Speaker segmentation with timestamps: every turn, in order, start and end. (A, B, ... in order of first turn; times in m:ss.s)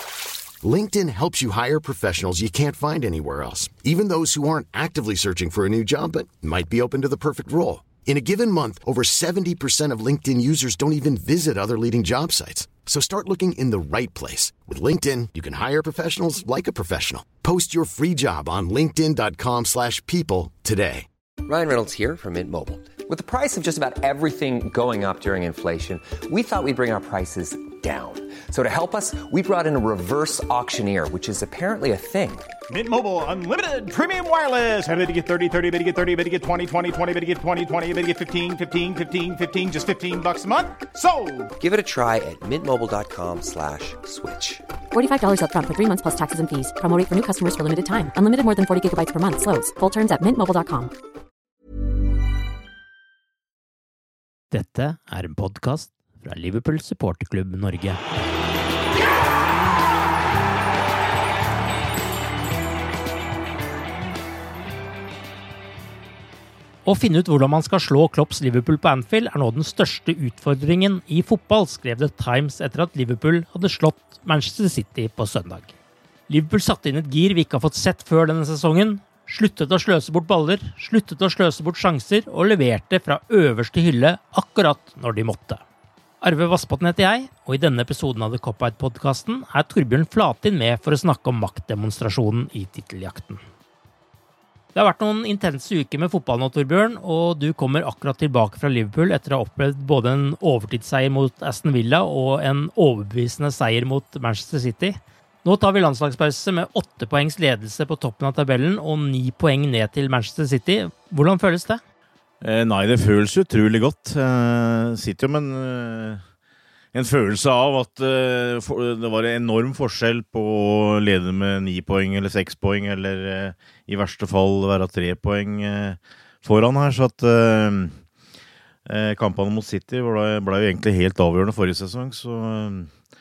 0:00.6-0:21.0 A
0:21.4-0:32.5 B
0:32.7-0:41.5 C
0:41.6-0:44.6 B
0:44.9-0:50.9 D
0:54.5-0:58.0 E
1:06.8-1:15.7 E
1:16.3-1:25.6 E
1:26.2-1:33.4 E
1:34.7-1:51.8 E
1:52.4-1:56.2 F
1:56.9-2:08.0 F
2:08.8-2:12.9 F